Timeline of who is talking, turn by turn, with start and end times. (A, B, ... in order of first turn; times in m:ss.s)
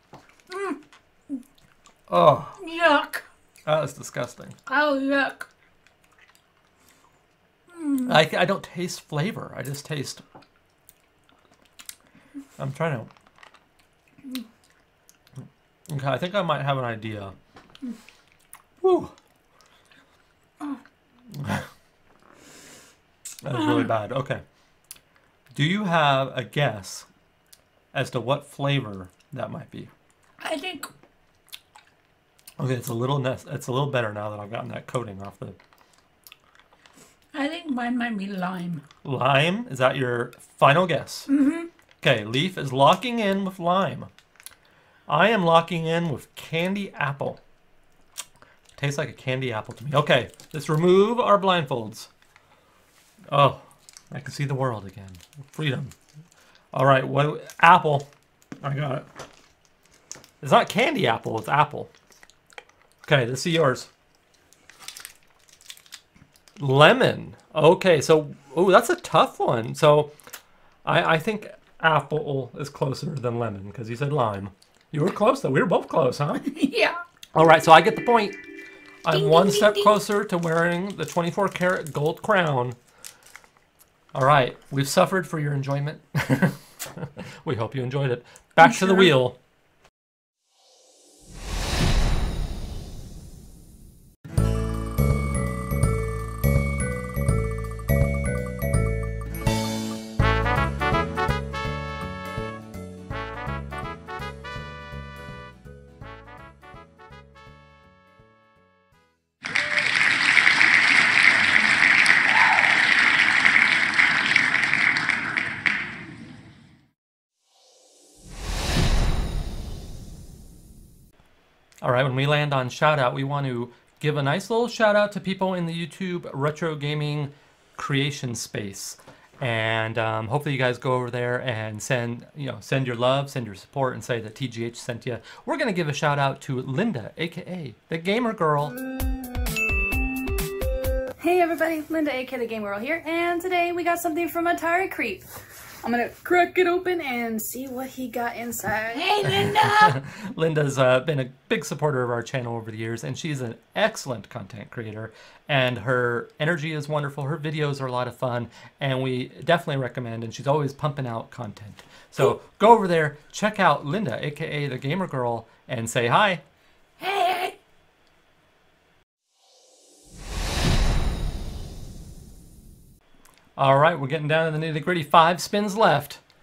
0:00.5-0:00.8 A
0:02.1-0:02.6 B
0:02.6-0:03.2 A
0:03.6-0:04.6 B
0:04.7-0:05.5 A
0:07.7-0:08.2 A
0:08.0-0:10.2 B
0:12.6-0:13.1 B
0:15.9-0:17.3 B
0:18.8-0:19.1 B
0:21.3-0:21.7 B
0:23.4-0:24.4 B
0:23.5-0:23.9 A
0:25.5-0:27.1 B
0:27.9-0:29.9 B
0:30.4-0:30.9 A
0:32.6-0:35.6 B
0:37.3-0:38.8 A
0:39.0-0:41.3 B
0:41.3-0:41.7 A
0:42.0-0:44.1 B
0:45.1-0:47.4 B
0:48.8-0:52.1 B
0:53.3-0:55.9 B
0:56.7-0:58.1 B
0:58.6-0:59.1 B
1:00.4-1:01.9 B
1:03.0-1:03.9 B
1:06.6-1:10.1 B
1:10.8-1:16.4 B
1:16.4-1:17.0 A
1:17.3-1:18.4 B
1:19.0-1:22.8 B
1:19.1-1:20.0 A
1:24.1-1:29.4 B
1:28.6-1:29.2 A
2:01.8-2:18.7 B
2:21.2-2:25.2 C
2:25.8-2:29.2 C
2:28.9-2:30.0 A
2:29.4-2:46.4 B
2:47.0-2:47.6 A
2:53.6-2:56.2 B